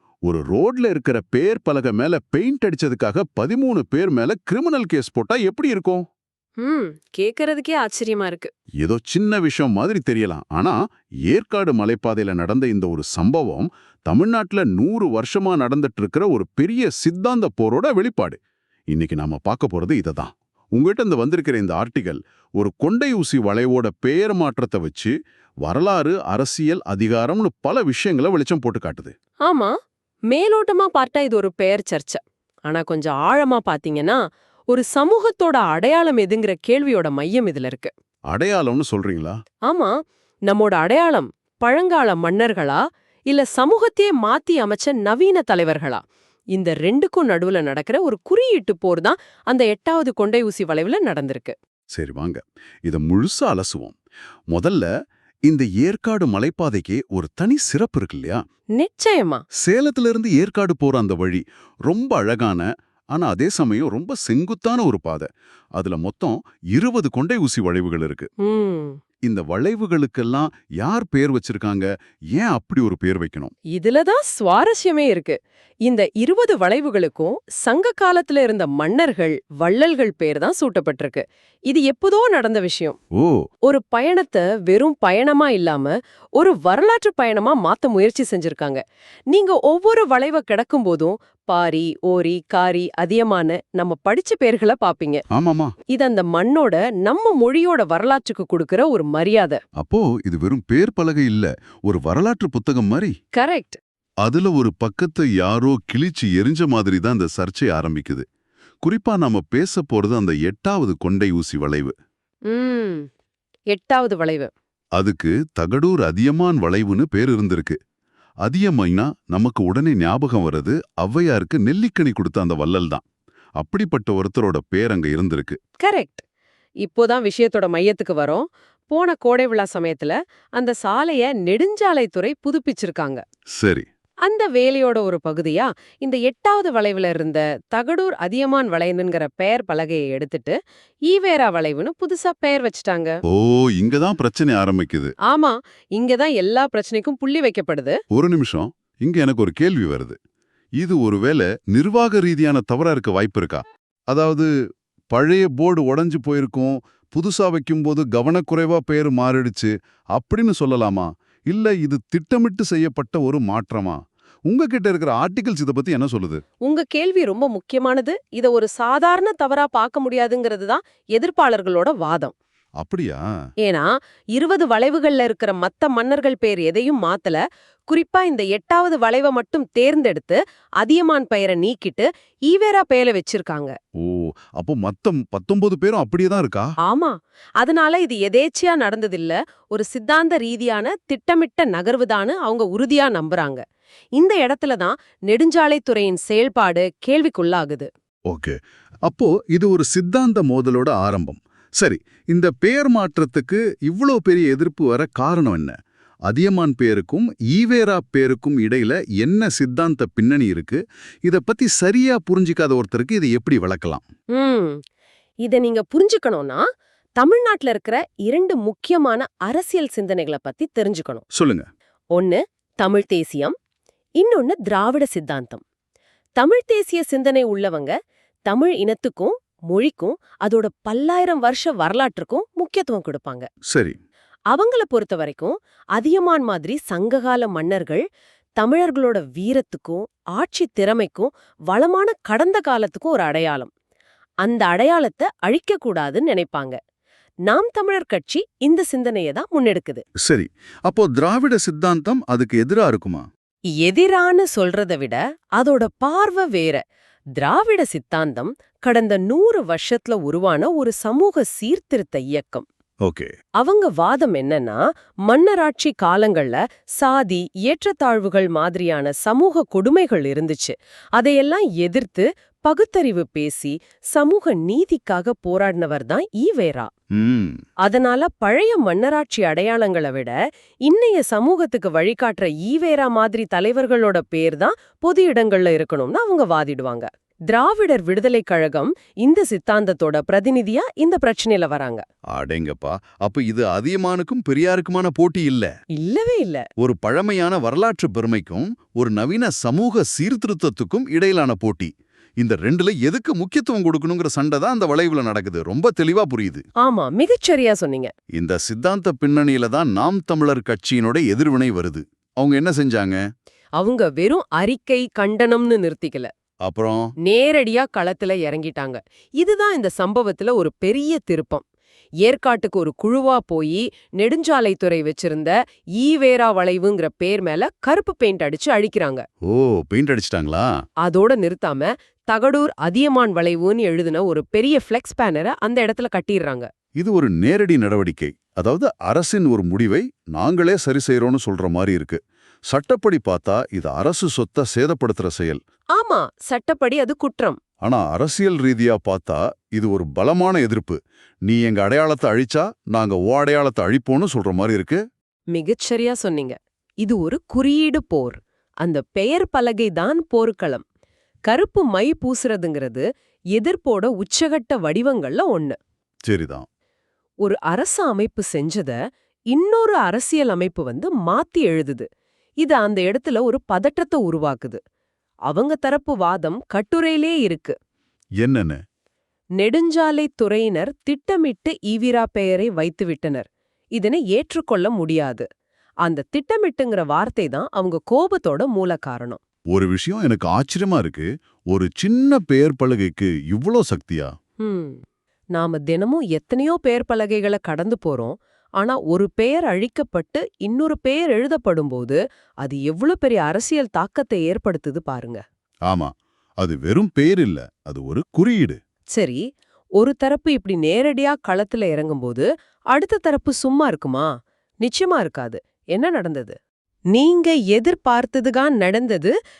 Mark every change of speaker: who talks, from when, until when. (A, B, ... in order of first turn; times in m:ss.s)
0:00.3-0:06.0 A
0:06.6-0:08.5 B
0:08.8-0:18.4 A
0:18.9-0:25.1 A
0:25.6-0:29.1 A
0:29.5-0:29.7 B
0:30.3-0:37.9 B
0:38.3-0:39.4 A
0:39.7-0:40.0 B
0:40.5-0:51.6 B
0:51.9-0:54.0 A
0:54.5-0:54.9 A
0:55.5-0:58.4 A
0:58.8-0:59.4 B
0:59.6-1:08.3 A
1:08.4-1:09.0 B
1:09.3-1:13.5 A
1:13.7-1:23.0 B
1:23.2-1:23.4 A
1:23.6-1:35.2 B
1:35.3-1:35.7 A
1:35.9-1:39.6 B
1:39.8-1:43.1 A
1:43.4-1:43.8 B
1:44.2-1:48.2 A
1:48.8-1:51.9 A
1:52.5-1:53.1 B
1:53.7-1:54.5 B
1:55.0-1:57.8 A
1:58.4-2:03.0 A
2:03.6-2:05.6 A
2:05.8-2:06.2 B
2:06.8-2:13.2 B
2:13.6-2:13.9 A
2:14.2-2:23.2 B
2:23.2-2:25.1 A
2:25.3-2:28.0 B
2:28.1-2:30.2 A
2:30.8-2:34.5 A
2:35.1-2:46.4 A
2:46.6-2:52.3 B
2:52.8-2:53.2 A
2:53.6-3:03.8 B
3:04.0-3:06.7 A
3:06.8-3:13.6 B
3:14.2-3:17.9 B
3:18.3-3:34.0 A
3:34.4-3:34.8 B
3:35.4-3:36.6 B
3:37.2-3:41.2 B
3:41.3-3:41.7 A
3:42.1-3:43.6 B
3:44.2-3:45.6 B
3:46.4-3:47.9 B
3:48.5-3:53.5 B
3:53.7-3:54.0 A
3:54.5-3:58.0 B
3:58.6-4:03.7 B
4:04.4-4:06.8 B
4:07.5-4:10.0 B
4:10.2-4:13.3 A
4:13.8-4:16.8 B
4:17.4-4:22.6 B
4:23.0-4:23.3 A
4:23.6-4:36.9 B
4:37.2-4:37.6 A
4:37.8-4:40.3 B
4:40.9-4:52.0 B
4:52.3-4:55.7 A
4:56.0-4:56.7 B
4:56.8-5:06.6 A
5:06.8-5:08.1 B
5:08.3-5:13.2 A
5:13.8-5:16.3 B
5:16.6-5:17.1 A
5:17.2-5:21.6 B
5:22.2-5:29.3 B
5:29.4-5:30.7 A
5:31.0-5:36.7 B
5:37.0-5:45.6 A
5:46.0-5:47.6 B
5:47.8-5:55.0 A
5:55.5-6:00.8 B
6:01.5-6:03.0 B
6:03.6-6:05.8 B
6:06.2-6:06.7 A
6:07.4-6:09.0 B
6:09.5-6:12.1 B
6:12.6-6:14.8 B
6:15.5-6:17.8 B
6:18.4-6:18.8 A
6:19.6-6:25.5 B
6:26.0-6:29.4 B
6:29.7-6:34.3 A
6:34.6-6:35.0 B
6:35.6-6:45.4 B
6:45.9-6:48.8 A
6:49.1-6:49.4 B
6:50.0-6:54.3 B
6:54.8-6:56.6 B
6:57.1-6:59.3 B